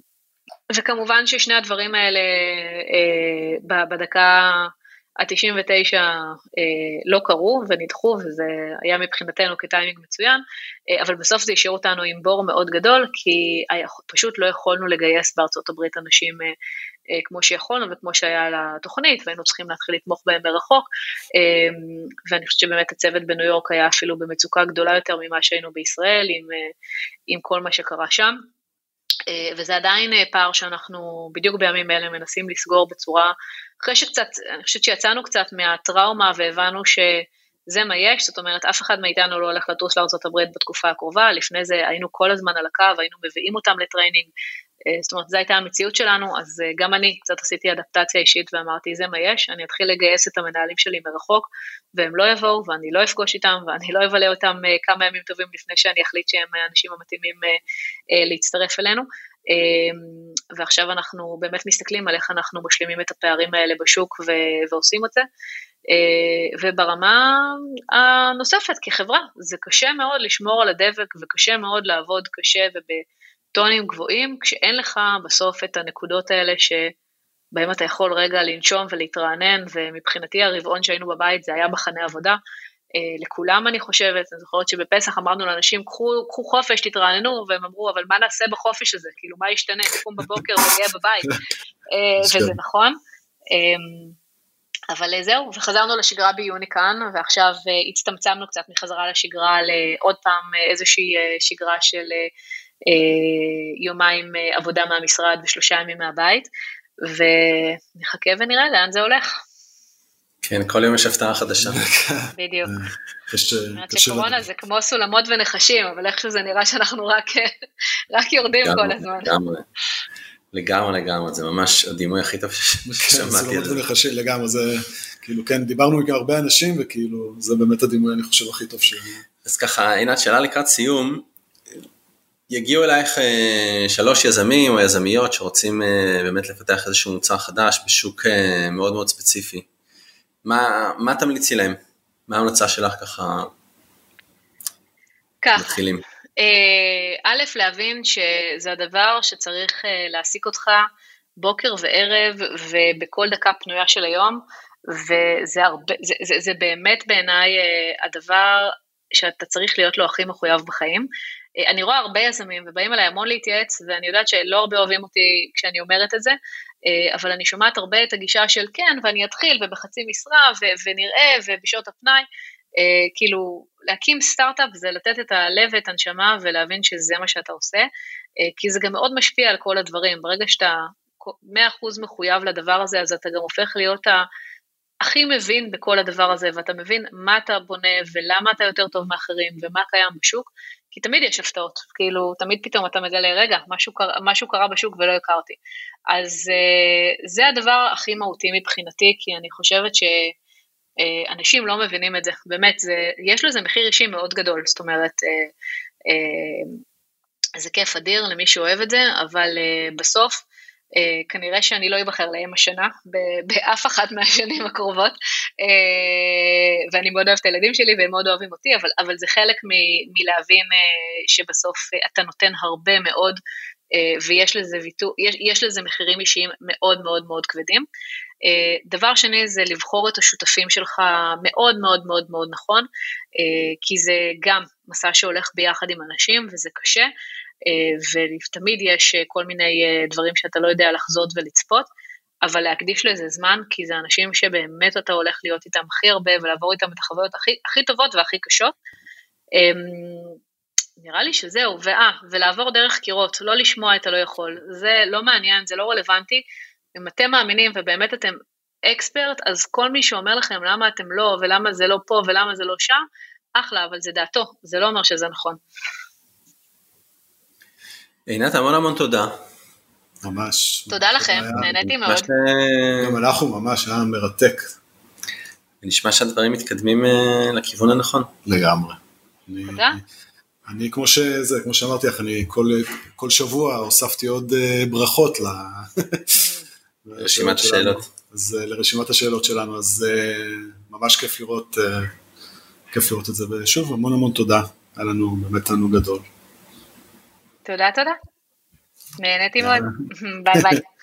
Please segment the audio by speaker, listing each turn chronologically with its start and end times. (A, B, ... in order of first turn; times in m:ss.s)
0:00.7-0:16.5 A
0:17.1-0:26.7 A
0:27.3-0:28.4 A
0:29.3-0:44.3 A
0:44.9-0:57.6 A
0:58.1-1:05.3 A
1:05.9-1:13.0 A
1:13.6-1:16.9 A
1:17.5-1:22.4 A
1:23.0-1:31.4 A
1:31.9-1:33.0 A
1:32.2-1:32.6 B
1:33.5-1:34.2 A
1:34.9-1:42.3 A
1:42.9-1:46.5 A
1:47.0-1:49.4 A
1:50.4-1:51.9 C
1:51.6-1:54.4 B
1:52.4-1:52.7 A
1:53.8-1:57.5 A
1:58.1-1:59.3 A
1:58.6-1:59.7 C
2:00.5-2:03.8 C
2:02.9-2:09.2 B
2:09.4-2:11.3 C
2:12.5-2:19.7 C
2:20.4-2:23.5 C
2:25.4-2:25.8 A
2:25.6-2:26.0 C
2:26.4-2:30.9 A
2:31.4-2:41.1 A
2:41.6-2:52.3 A
2:52.8-2:57.9 A
2:58.4-3:04.2 A
3:05.0-3:15.6 A
3:16.1-3:20.3 A
3:21.0-3:25.5 A
3:26.1-3:26.8 A
3:27.6-3:30.4 A
3:31.0-3:43.4 A
3:43.9-3:47.9 A
3:48.4-3:57.1 A
3:57.7-4:01.9 A
4:02.4-4:08.7 A
4:09.6-4:10.4 A
4:11.0-4:16.4 A
4:17.0-4:23.0 A
4:23.6-4:25.6 A
4:28.3-4:29.4 C
4:30.2-4:31.9 B
4:30.9-4:32.3 A
4:31.6-4:33.2 C
4:33.0-4:34.7 B
4:35.8-4:38.3 C
4:38.4-4:40.0 B
4:39.7-4:40.0 A
4:40.7-4:46.5 B
4:46.4-4:46.7 A
4:47.0-4:52.1 B
4:47.2-4:48.0 C
4:52.9-4:56.3 B
4:57.7-4:58.2 A
4:59.2-5:00.8 A
5:00.5-5:00.8 B